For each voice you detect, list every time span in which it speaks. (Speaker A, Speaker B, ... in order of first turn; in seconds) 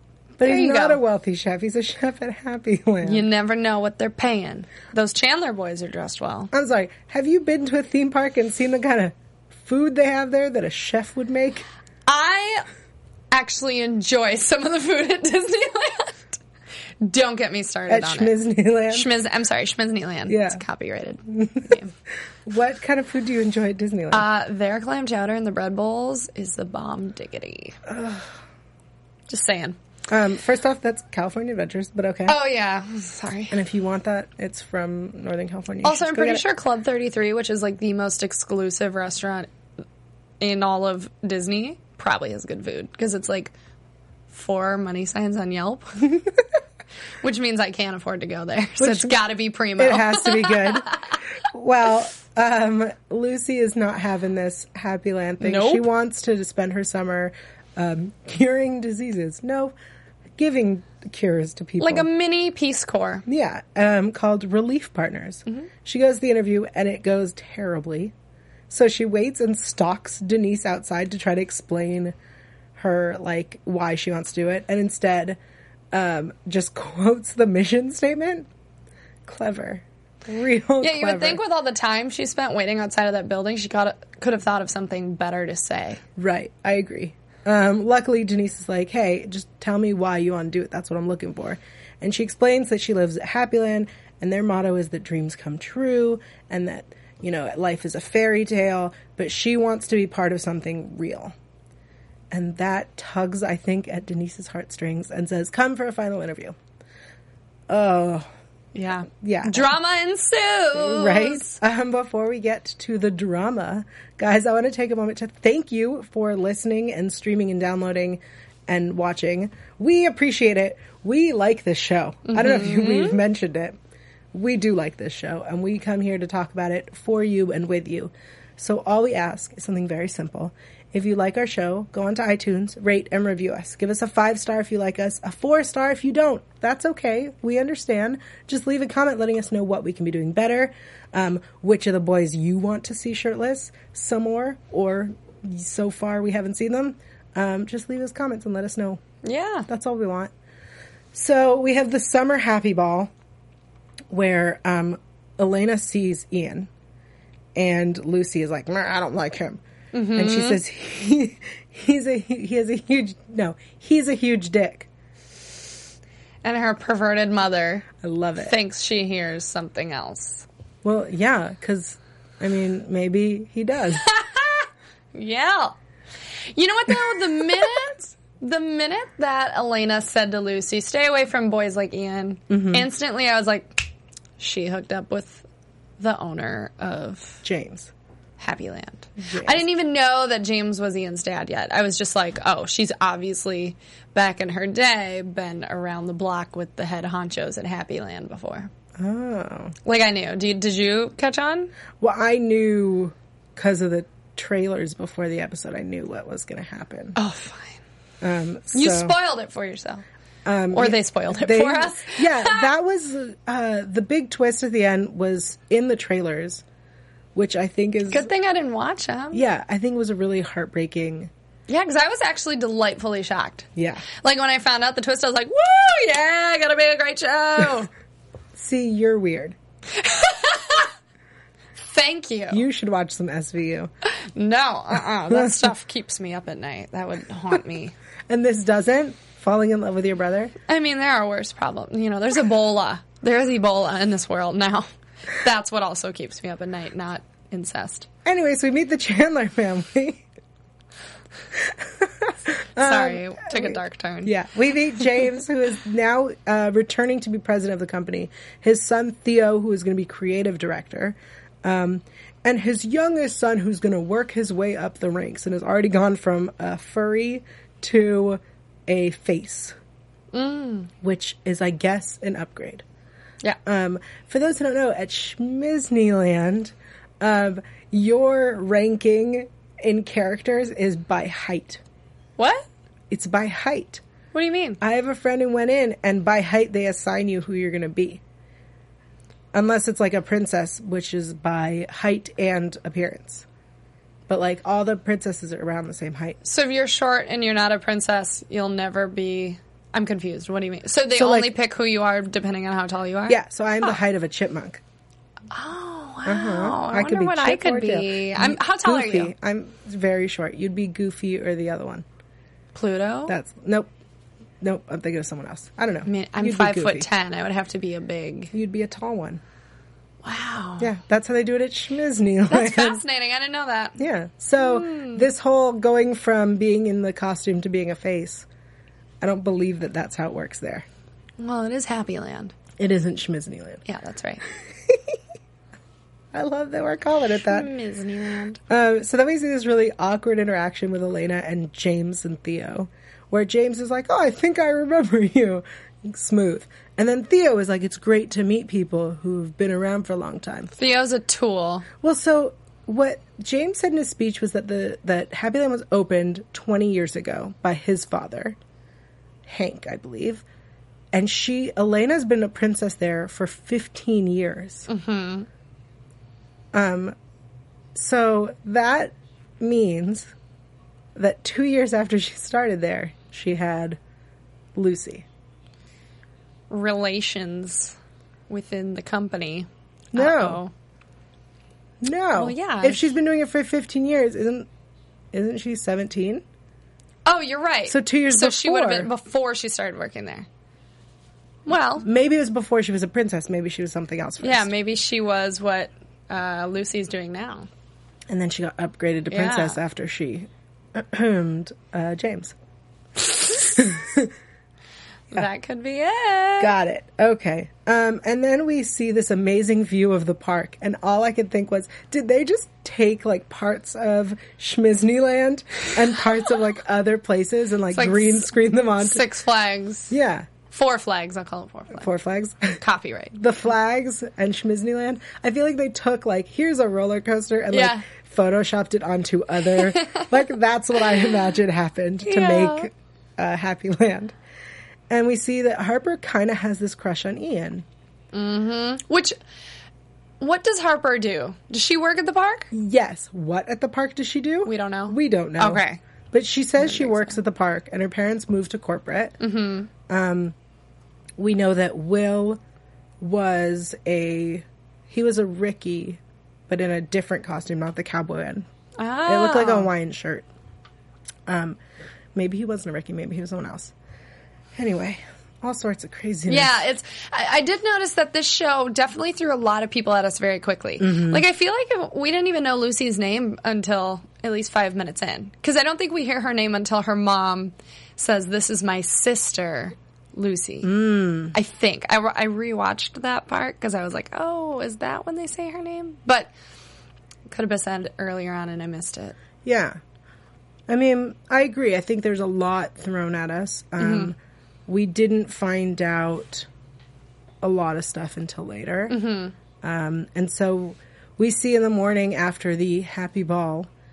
Speaker A: 0.4-3.2, 6.5-11.7, 17.9-19.1, 20.3-20.6, 22.4-24.2, 27.9-28.3, 30.1-32.4, 33.5-36.4, 48.8-49.2, 49.8-59.7, 60.4-62.1, 63.3-68.1, 68.7-72.1, 72.8-75.4, 75.9-78.5, 79.2-81.4, 86.2-101.3, 102.3-106.5, 107.7-108.3, 109.0-109.7, 110.7-123.8, 124.3-149.0, 149.7-150.3, 151.1-153.1, 154.1-156.7, 157.5-159.6, 160.1-164.9, 168.0-168.5, 170.8-174.0, 182.5-182.8, 187.4-187.9, 189.2-189.7, 199.0-199.7, 202.0-207.2, 208.2-209.1, 210.4-216.6, 217.3-218.3, 219.3-221.3, 223.8-224.0, 228.5-229.6, 232.5-233.9, 235.3-235.7, 238.3-240.5, 248.2-250.2, 251.5-269.8, 271.0-272.8, 273.6-281.8, 283.1-284.0, 284.8-288.2, 289.5-293.4, 294.3-296.4, 301.1-301.5, 303.3-304.8, 306.2-312.0, 313.3-313.9, 314.6-317.1, 318.5-319.4, 320.8-323.0, 324.0-328.4, 329.2-330.9, 332.8-333.8, 334.9-335.2, 336.3-337.7, 338.7-350.7, 352.0-358.6, 359.5-360.4, 361.1-364.9, 366.7-367.1, 367.9-370.3, 371.1-374.0, 374.7-375.2, 380.1-380.6, 382.0-384.7, 385.3-386.4, 387.9-389.1, 392.0-394.7, 398.3-402.5, 403.7-404.3, 406.6-419.2, 420.1-420.5, 421.9-422.8, 423.4-434.3, 435.1-437.9, 442.7-449.4, 450.1-450.5, 451.4-452.6, 453.2-458.7, 459.2-460.4, 461.5-461.8, 462.3-463.9, 464.7-466.8, 471.0-471.4, 480.8-481.5, 489.6-490.0, 490.9-494.4, 494.9-496.7, 497.6-499.2, 499.8-503.9
Speaker B: 0.4-1.0, 3.0-6.5, 12.1-12.7, 13.3-16.4, 17.0-18.4, 18.9-21.9, 24.1-27.8, 29.3-29.8, 32.3-33.5, 35.8-39.5, 40.4-43.5, 44.3-46.2, 47.2-51.1, 55.4-55.9, 61.8-63.2, 80.8-86.0, 108.7-111.6, 122.3-123.2, 149.2-149.7, 159.9-160.6, 166.4-167.9, 168.4-170.4, 174.0-175.7, 176.5-183.9, 184.4-185.4, 186.0-187.4, 188.4-198.7, 199.8-201.7, 207.1-207.8, 208.7-210.0, 210.7-212.7, 218.1-219.4, 221.7-227.9, 229.9-230.9, 231.8-232.6, 234.2-237.9, 240.7-248.1, 252.8-254.3, 270.3-270.9, 282.4-282.7, 284.3-284.8, 296.4-303.9, 305.5-309.3, 312.7-313.3, 316.1-318.5, 320.2-320.9, 322.5-324.0, 324.6-325.2, 331.4-332.5, 333.8-334.4, 337.4-338.6, 350.8-351.9, 364.9-365.5, 376.7-377.9, 378.5-380.7, 382.3-383.1, 387.2-390.5, 391.6-392.1, 394.4-397.7, 399.3-399.8, 405.3-406.7, 417.9-420.1, 420.7-422.1, 422.8-423.4, 427.7-428.0, 430.0-430.3, 432.2-432.9, 438.3-439.4, 440.4-442.7, 444.6-446.0, 446.8-447.4, 449.4-449.9, 459.0-459.9, 466.5-480.9, 481.5-486.5, 487.5-489.4, 494.0-494.3, 499.1-499.5